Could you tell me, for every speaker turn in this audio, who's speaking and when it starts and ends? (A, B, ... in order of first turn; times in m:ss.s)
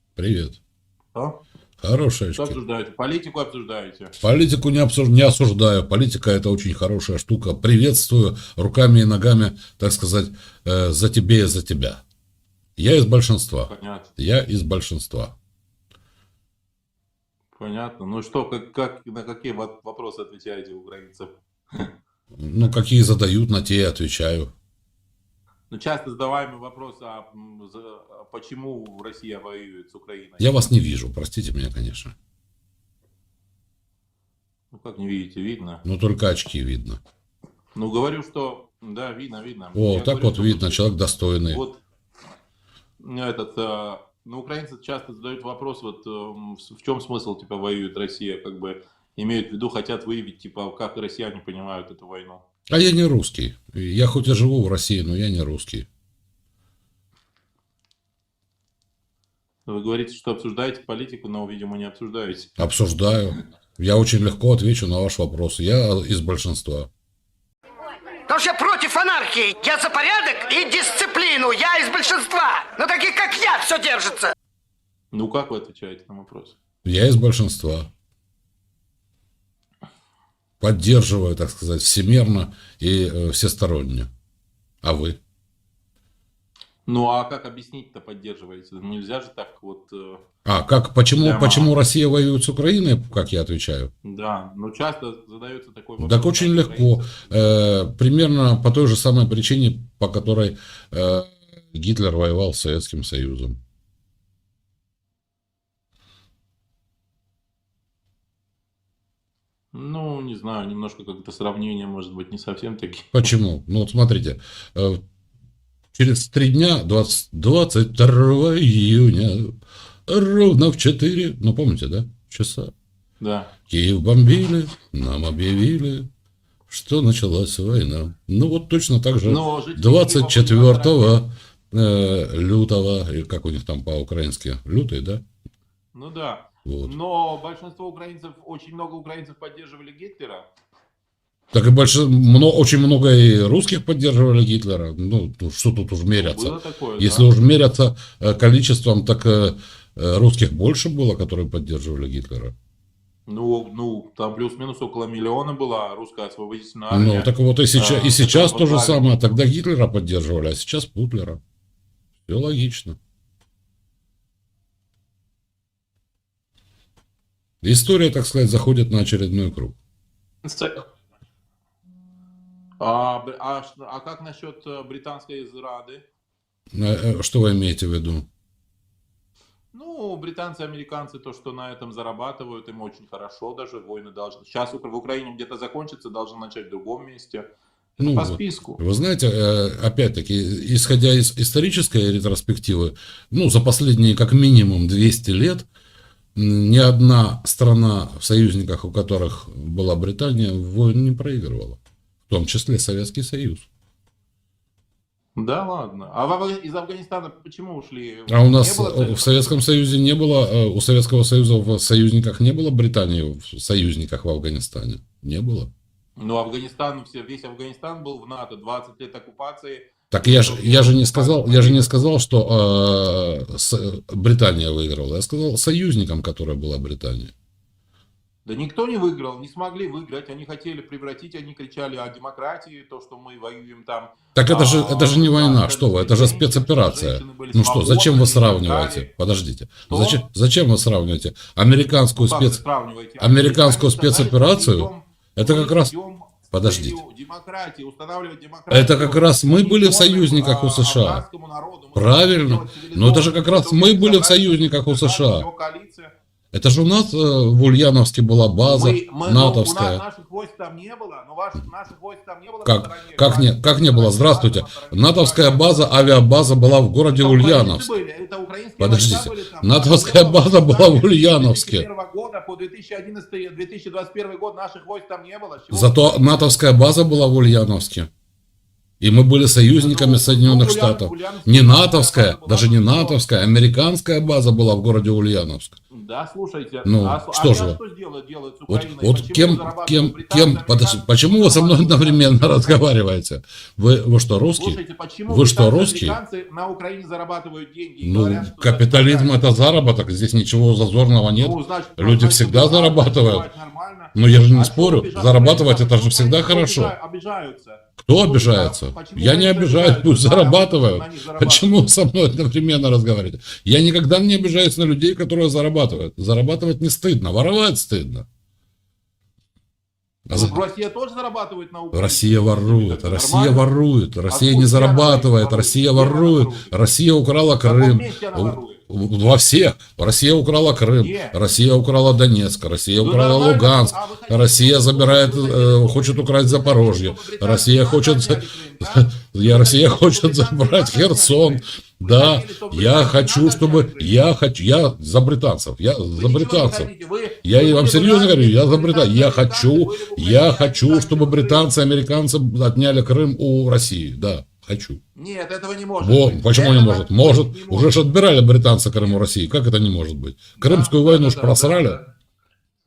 0:00.2-0:00.6 A
0:01.8-0:02.6 A
0:02.4-0:04.1 B
0:04.2-0:12.0 A
0:12.8-0:15.4 A
0:13.7-0:14.1 B
0:17.6-0:21.9 B
0:22.4-0:24.5 A
0:25.7-0:30.6 B
0:30.4-0:32.1 A
0:34.7-0:35.8 B
0:35.8-0:37.0 A
0:37.8-0:40.8 B
0:39.8-0:41.6 A
0:41.5-0:41.8 B
0:43.0-0:52.4 B
0:52.7-0:55.9 A
0:59.7-1:02.5 B
1:02.6-1:06.9 A
1:08.2-1:14.3 C
1:15.1-1:16.6 B
1:16.8-1:17.9 A
1:20.6-1:24.1 A
1:24.8-1:25.2 A
1:26.9-1:30.2 B
1:30.4-1:33.9 A
1:31.2-1:31.7 B
1:34.0-1:37.4 B
1:36.0-1:43.6 A
1:49.7-1:53.3 B
1:53.1-1:55.0 A
1:55.9-1:59.6 A
2:00.1-2:02.7 A
2:03.2-2:03.5 B
2:03.7-2:06.1 A
2:06.7-2:15.2 A
2:09.2-2:11.2 B
2:15.9-2:20.5 B
2:16.6-2:16.9 A
2:21.5-2:32.5 A
2:26.2-2:27.3 B
2:33.3-2:39.2 B
2:36.9-2:41.4 A
2:42.3-2:43.0 A
2:47.6-2:49.8 A
2:50.4-2:50.8 B
2:52.8-2:56.0 B
2:56.7-2:58.3 A
2:59.7-3:07.5 B
3:08.0-3:08.8 B
3:08.0-3:15.7 A
3:16.4-3:23.7 A
3:25.4-3:29.6 B
3:28.3-3:35.7 A
3:36.2-3:41.9 B
3:40.1-3:47.3 A
3:48.4-3:59.1 B
3:54.4-4:02.6 A
3:59.9-4:00.2 B
4:02.2-4:16.1 B
4:03.2-4:05.9 A
4:06.5-4:07.0 A
4:08.7-4:11.2 A
4:12.0-4:15.5 A
4:16.5-4:20.0 A
4:18.6-4:25.9 B
4:22.6-4:27.9 A
4:27.2-4:36.5 B
4:28.8-4:31.9 A
4:35.7-4:38.1 A
4:39.0-4:45.8 A
4:39.8-4:43.2 B
4:45.9-4:52.8 B
4:46.8-4:47.8 A
4:48.7-4:56.2 A
4:54.6-4:59.4 B
4:58.0-5:03.5 A
5:01.4-5:11.8 B
5:04.2-5:06.9 A
5:08.0-5:18.3 A
5:20.3-5:20.6 A
5:20.3-5:23.7 B
5:21.9-5:46.9 A
5:24.3-5:26.7 B
5:27.6-5:28.8 B
5:31.0-5:31.4 B
5:33.0-5:44.2 B
5:46.2-5:51.7 B
5:47.4-5:55.0 A
5:55.2-5:58.0 B
5:56.0-6:02.0 A
6:00.6-6:02.0 B